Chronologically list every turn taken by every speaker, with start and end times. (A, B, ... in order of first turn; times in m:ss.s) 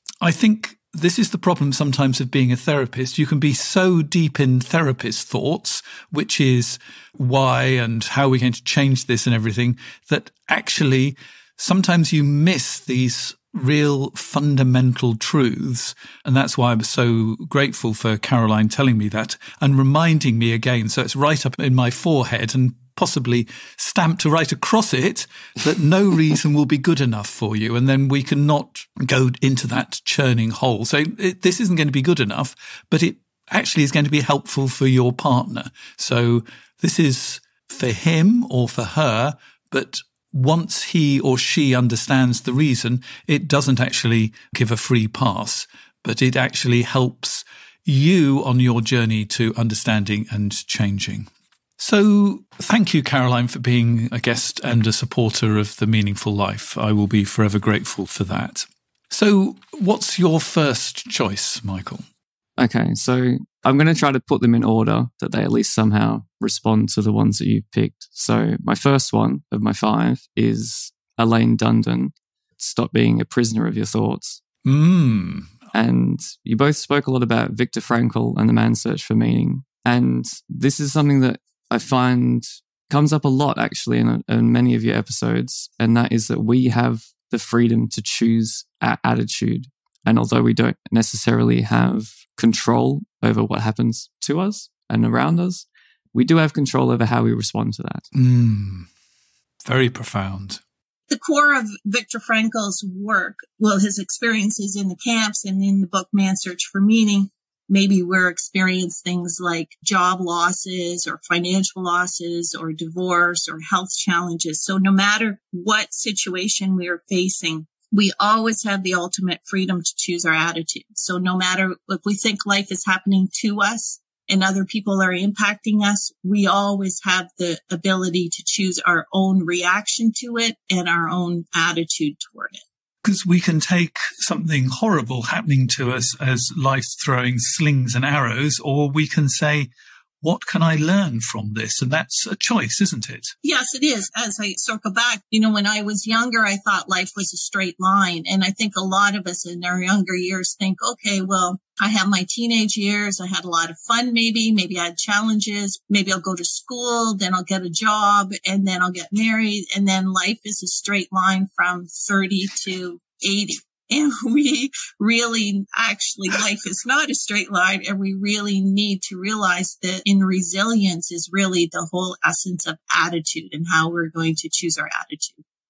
0:00.2-1:02.0 A
1:02.6-1:14.4 B
1:14.6-1:15.6 A
1:15.7-1:38.0 B
1:38.1-1:38.9 A
1:39.6-1:40.6 A
1:41.1-2:12.6 C
2:13.0-2:19.7 A
2:20.2-2:23.3 A
2:23.4-2:55.4 C